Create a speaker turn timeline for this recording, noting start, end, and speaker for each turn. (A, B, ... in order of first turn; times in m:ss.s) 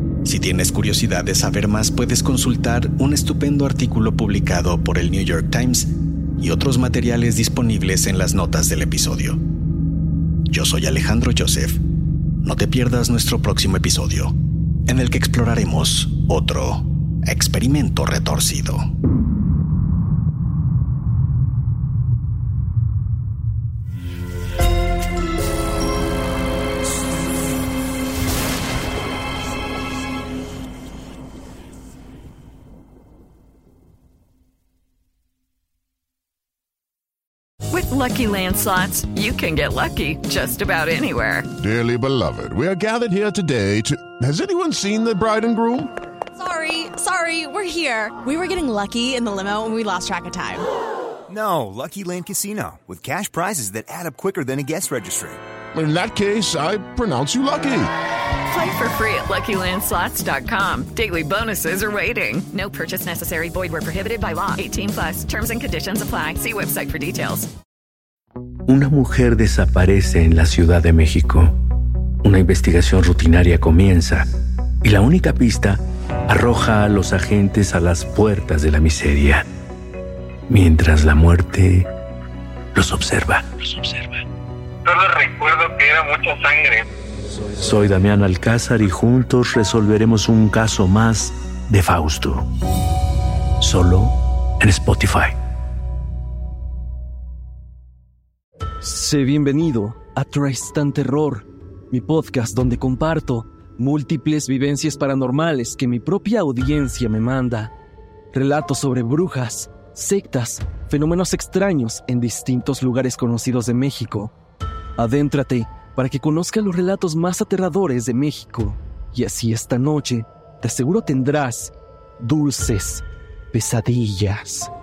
0:00.2-0:09.4 A
0:10.5-0:11.8 A
0:12.4-0:14.4 A
0:14.9-0:18.9 A
0:37.7-0:41.5 B
0:41.6-0:45.9 C
0:46.4-0:50.6 D
0:51.3-0:55.4 E
0:55.7-0:57.9 C
0:58.5-1:07.5 B
1:08.7-1:11.5 F
1:12.2-1:14.3 F
1:14.8-1:19.4 F
1:20.5-1:21.9 F
1:22.7-1:24.1 F
1:24.8-1:26.8 G
1:27.6-1:32.4 F
1:33.6-1:35.3 F
1:38.8-1:47.7 H
1:48.3-1:54.3 H
1:55.0-2:04.7 H